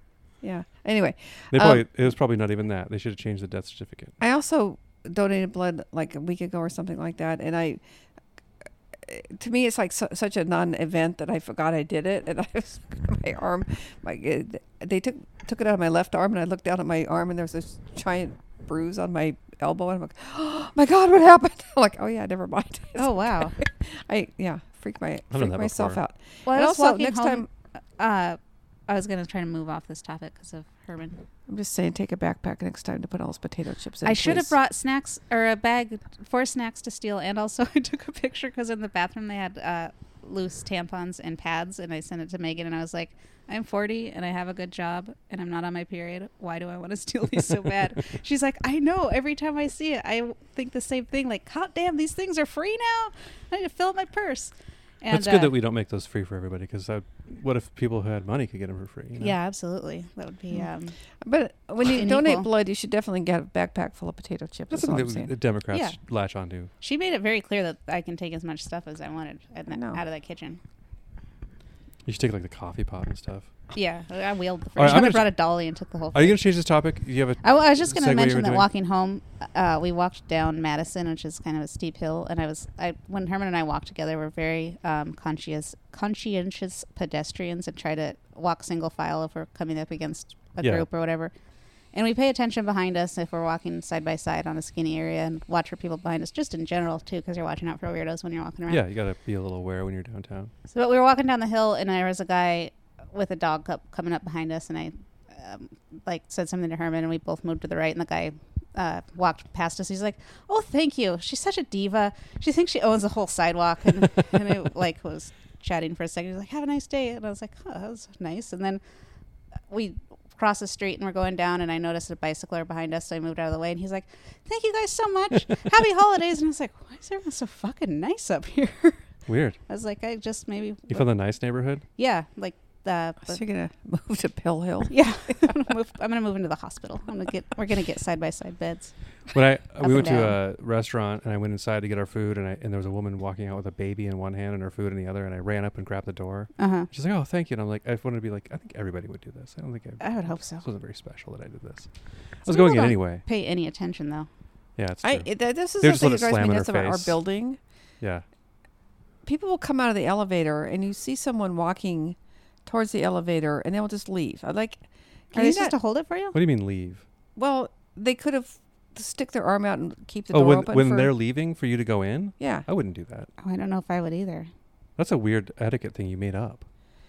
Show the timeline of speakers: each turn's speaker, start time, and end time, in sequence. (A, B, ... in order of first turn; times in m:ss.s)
0:00.4-0:01.8 A
0:01.5-0:04.1 B
0:04.2-0:07.8 A
0:09.0-0:27.5 A
0:23.0-0:23.5 C
0:25.3-0:26.0 B
0:26.4-0:27.5 C
0:28.0-0:31.2 C
0:31.5-0:34.5 A
0:34.0-0:55.5 C
0:55.1-0:59.3 B
0:59.2-1:00.9 C
1:01.2-1:05.3 A
1:01.8-1:02.5 C
1:04.7-1:06.7 B
1:05.7-1:06.0 C
1:06.8-1:10.6 C
1:09.7-1:10.0 A
1:12.0-1:13.5 B
1:13.7-1:16.4 C
1:14.8-1:15.3 B
1:16.1-1:18.7 B
1:17.4-1:31.3 C
1:30.6-1:30.9 B
1:31.9-1:38.8 C
1:38.7-1:40.5 B
1:40.7-1:58.8 C
1:59.7-2:09.0 C
2:09.3-2:09.6 B
2:09.7-2:11.0 C
2:10.9-2:11.8 B
2:12.0-2:13.4 C
2:13.2-2:15.0 A
2:14.9-2:18.9 C
2:19.3-2:31.9 B
2:19.8-2:20.4 C
2:26.6-2:26.9 C
2:30.0-2:30.6 C
2:32.4-2:33.2 B
2:32.4-2:34.3 C
2:34.8-2:37.2 B
2:35.0-2:37.6 A
2:39.2-2:44.8 A
2:45.3-2:45.7 A
2:45.3-2:46.4 C
2:46.3-2:47.0 B
2:47.4-2:51.1 A
2:50.3-2:53.3 B
2:52.4-2:52.6 A
2:53.4-2:54.5 C
2:55.0-2:56.6 B